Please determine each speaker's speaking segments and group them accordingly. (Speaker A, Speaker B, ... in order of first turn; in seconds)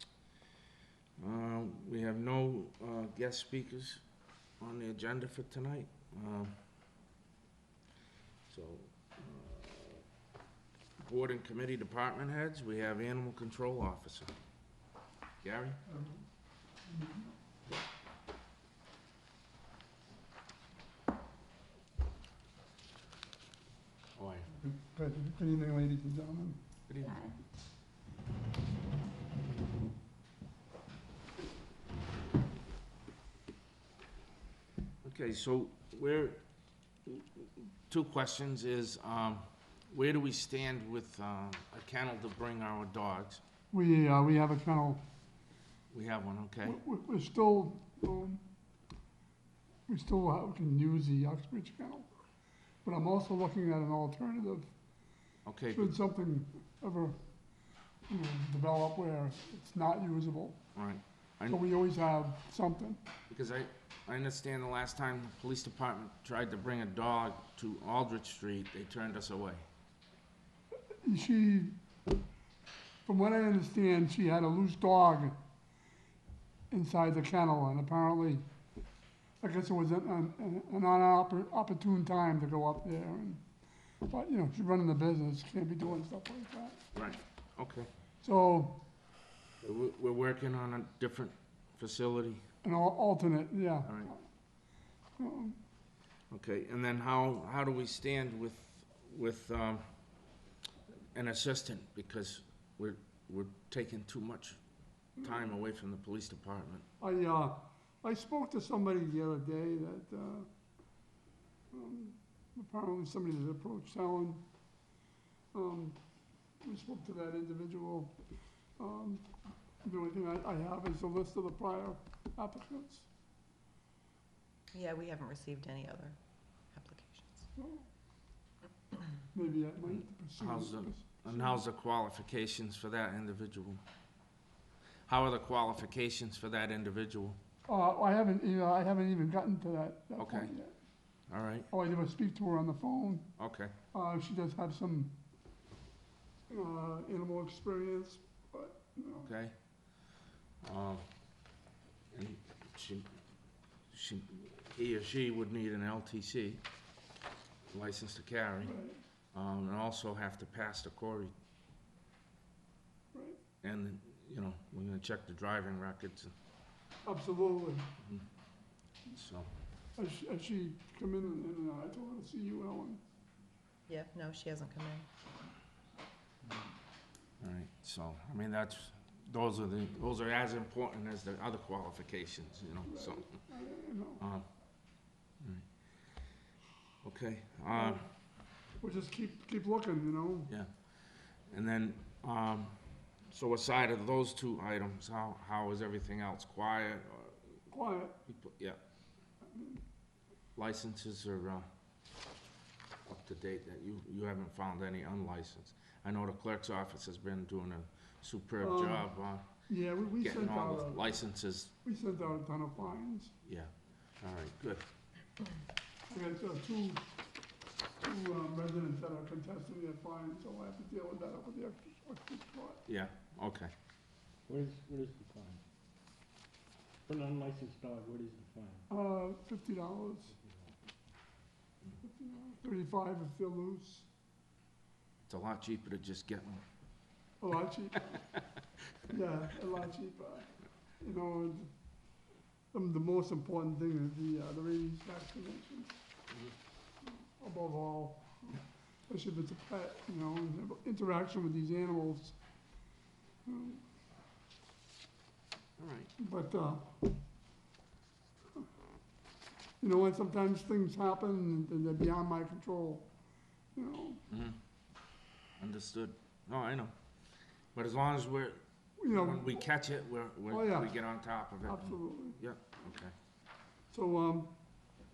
Speaker A: 1.2-4.0, 4.6-6.5, 8.5-10.0, 11.0-14.3, 15.4-15.8, 24.1-24.5, 26.9-27.3, 35.0-36.4, 37.0-43.4, 45.9-46.8, 55.4-56.0, 60.7-61.6, 63.3-69.6, 86.9-87.9, 89.6-92.4, 93.8-94.1, 96.3-99.8, 100.9-104.6, 105.2-106.8, 130.0-133.8, 135.1-137.4, 140.2-140.5, 141.3-141.7, 143.4-143.7, 149.2-149.5, 150.6-151.0, 152.1-153.1, 153.9-156.6, 157.7-158.8, 159.3-161.3, 163.6-166.3, 169.1-169.5, 177.4-183.3, 184.2-184.4, 185.4-185.7, 187.0-188.0, 191.5-192.8, 193.3-197.4, 198.3-198.8, 200.6-201.7, 203.1-209.4, 210.2-211.7, 213.4-214.8, 222.9-223.7, 235.3-236.6, 255.8-256.1, 264.3-264.6, 265.6-266.9, 267.7-273.1
Speaker B: 15.9-16.2, 16.9-17.3, 24.6-26.6, 43.7-45.0, 46.6-48.4, 49.9-52.1, 52.8-54.7, 55.7-57.2, 58.1-60.6, 61.5-63.0, 71.0-71.8, 73.0-75.4, 76.7-78.4, 79.4-83.4, 84.0-86.8, 88.2-88.8, 92.6-94.2, 95.2-95.6, 107.0-110.5, 111.7-114.4, 115.5-116.0, 116.6-118.1, 118.8-119.3, 119.8-123.1, 127.5-127.8, 129.3-131.6, 137.7-140.7, 141.7-143.3, 143.9-145.2, 146.5-149.3, 158.6-159.0, 163.1-163.4, 167.0-167.9, 169.9-173.0, 182.9-184.2, 187.7-188.0, 188.8-190.5, 197.7-198.2, 199.5-199.8, 208.6-209.1, 209.7-211.1, 211.8-213.3, 216.1-217.1, 218.0-222.8, 228.9-230.3, 232.0-234.1, 237.4-238.3, 239.1-241.7, 242.7-245.9, 247.4-252.4, 253.4-253.8, 256.2-257.1, 259.8-263.1, 263.7-264.2, 269.0-269.6, 270.5-270.9, 271.6-272.4, 273.9-274.5
Speaker C: 124.7-126.2, 126.7-127.5, 173.9-175.1
Speaker D: 224.5-225.6, 227.1-228.9, 230.3-230.8